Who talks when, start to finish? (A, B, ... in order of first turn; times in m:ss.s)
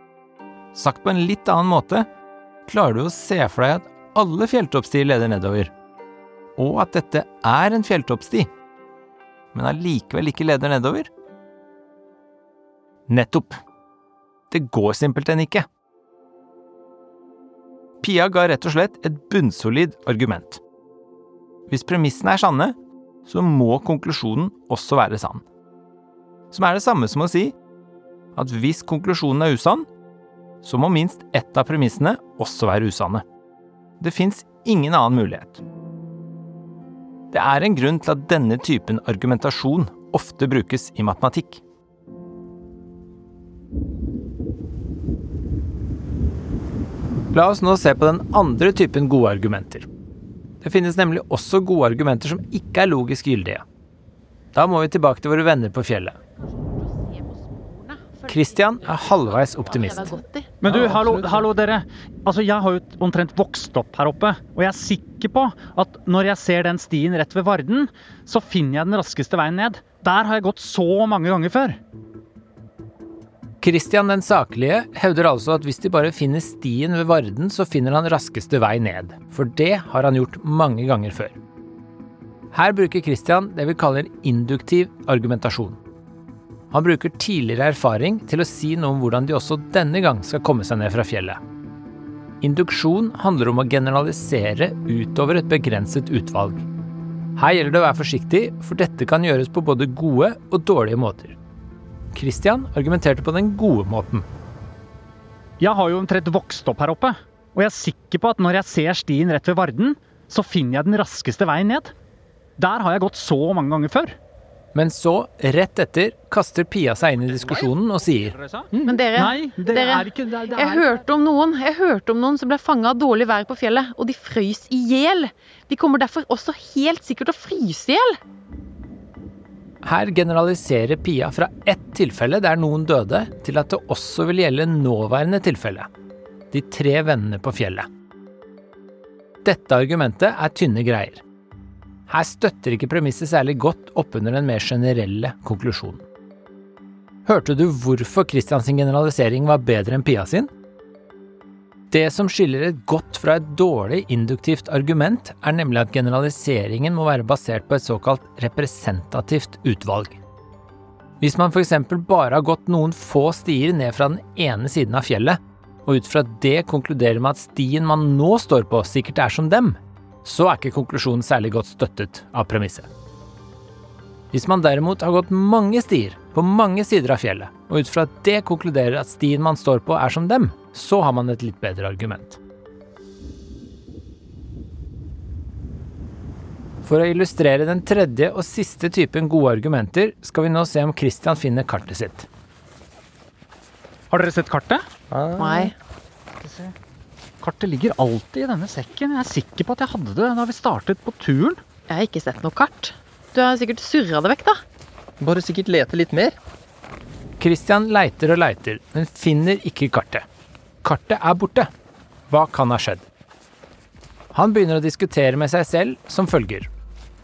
0:00.7-0:02.1 A
0:02.6-0:05.7 A
0:06.6-0:08.5 A
0:09.5-0:11.1 A
0:13.1-0:13.6 A
0:14.5-0:15.7 A
0:18.0-0:20.6 A
0:21.7-0:25.4 A
0:26.5-0:27.6 A
0:28.3-0:29.9 A
0:30.6-0:33.2 A
0:34.0-0:35.6 A
0:37.3-0:41.6 A
0:47.3-0:49.9 A
0:50.6-0:53.6 A
0:54.5-0:56.2 A
0:56.4-1:00.5 B
0:58.3-1:00.2 A
1:00.6-1:11.8 C
1:00.6-1:01.3 D
1:13.6-1:21.4 A
1:22.5-1:25.8 A
1:26.7-1:31.4 A
1:32.4-1:36.6 A
1:37.4-1:41.4 A
1:42.1-1:44.3 A
1:45.6-1:51.9 C
1:52.6-1:54.2 C
1:54.7-1:58.4 A
1:57.4-2:01.0 C
1:58.8-2:08.2 B
2:09.8-2:15.9 A
2:16.5-2:17.9 A
2:19.4-2:21.2 A
2:22.1-2:26.0 A
2:27.2-2:30.5 A
2:31.9-2:40.2 A
2:41.2-2:52.9 A
2:54.3-3:02.4 A
3:06.8-3:12.3 A
3:14.1-3:14.8 C
3:15.1-3:15.7 D
3:15.4-3:15.7 B
3:16.3-3:16.7 C
3:17.4-3:21.6 C
3:21.9-3:24.6 B
3:25.2-3:26.3 D
3:27.4-3:30.2 A
3:30.8-3:31.7 A
3:32.3-3:33.0 A
3:34.3-3:36.7 A